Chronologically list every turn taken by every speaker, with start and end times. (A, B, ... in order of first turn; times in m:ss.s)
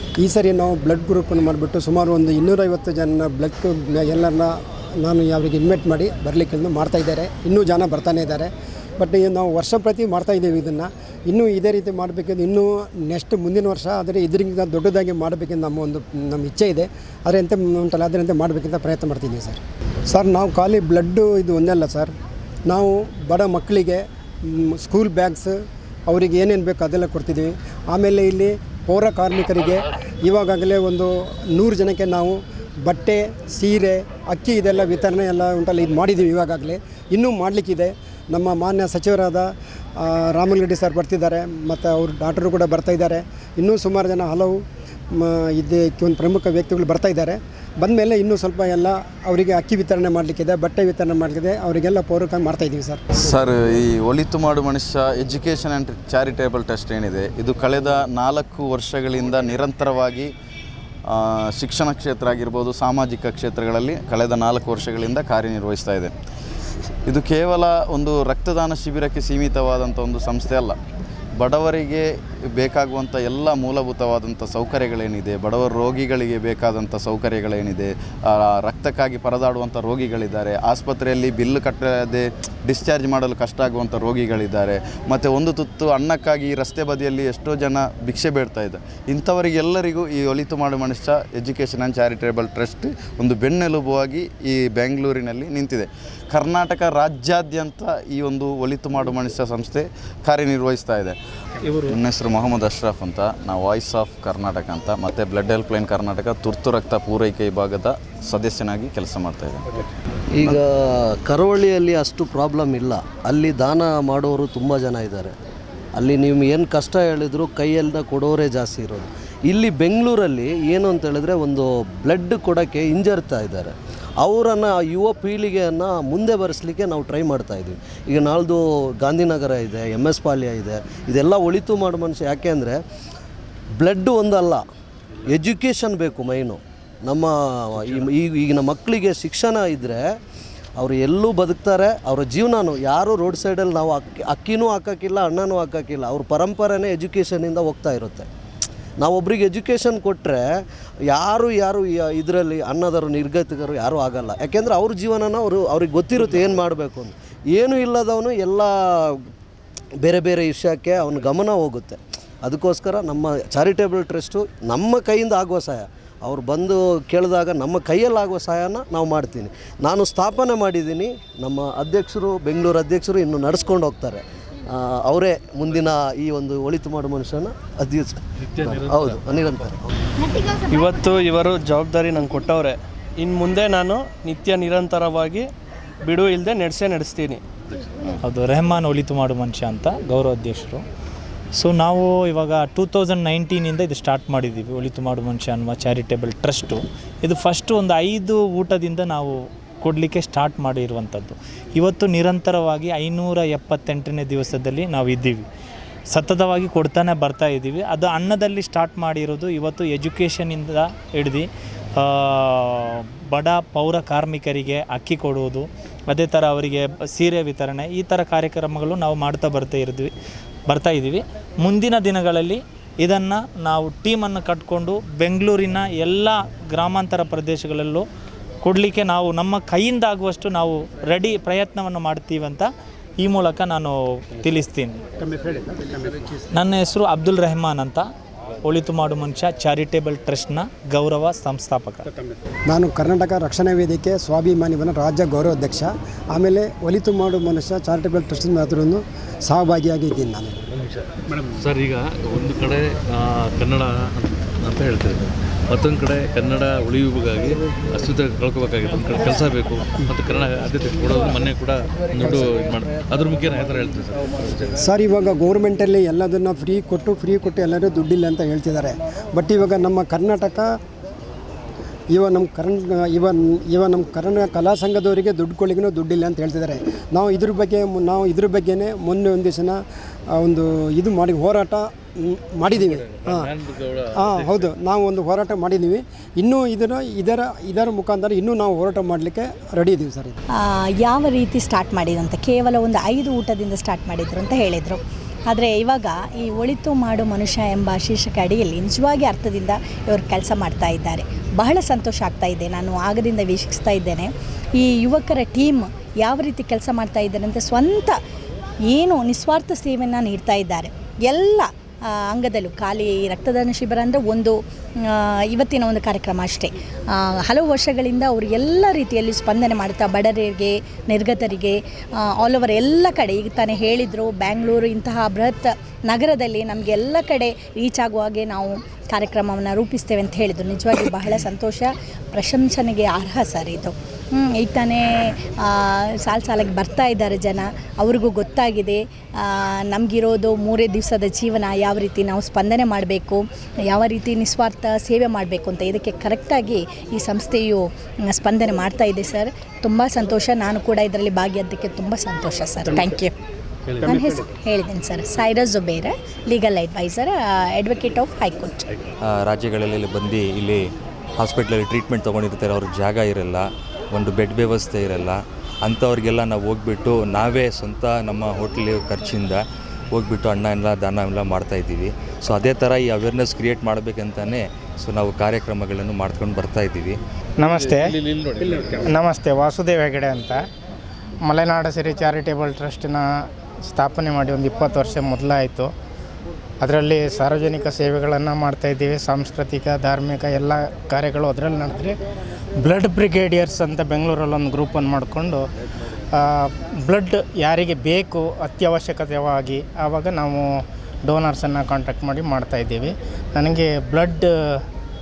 0:00.2-0:22.1 A
0:22.7-0:44.6 A
0:45.1-0:53.0 A
0:53.2-1:00.3 B
1:01.1-1:06.1 B
1:07.1-1:10.8 B
1:11.4-1:49.7 B
1:50.4-1:55.3 C
1:56.0-2:03.7 C
2:04.2-2:12.8 C
2:13.8-2:14.6 C
2:15.3-2:20.0 C
2:20.8-2:28.3 C
2:29.0-2:30.4 C
2:31.1-2:38.7 C
2:40.0-2:54.2 C
2:54.8-2:59.8 C
2:58.5-2:59.4 D
3:00.6-3:05.5 E
3:06.0-3:07.4 E
3:08.2-3:10.8 F
3:11.6-3:25.5 F
3:26.1-3:31.5 F
3:32.0-3:40.1 F
3:40.7-3:48.0 F
3:48.6-3:52.7 F
3:53.2-3:55.0 F
3:56.5-3:58.0 F
3:58.6-4:02.1 F
4:02.7-4:10.7 A
4:11.5-4:24.8 D
4:22.2-4:22.5 A
4:24.8-4:30.7 A
4:32.1-4:39.8 A
4:40.4-4:43.5 A
4:42.7-4:44.7 D
4:44.2-4:50.4 A
4:51.0-5:08.2 G
5:08.9-5:11.7 G
5:12.3-5:16.7 G
5:17.4-5:21.8 G
5:22.4-5:53.4 G
5:54.0-5:58.9 G
5:59.2-6:00.8 H
6:01.4-6:17.2 H
6:17.6-6:18.2 I
6:17.7-6:19.1 D
6:19.0-6:20.6 I
6:21.4-6:23.3 I
6:23.9-6:25.9 I
6:26.8-6:32.2 I
6:32.8-6:35.6 I
6:36.4-6:44.5 I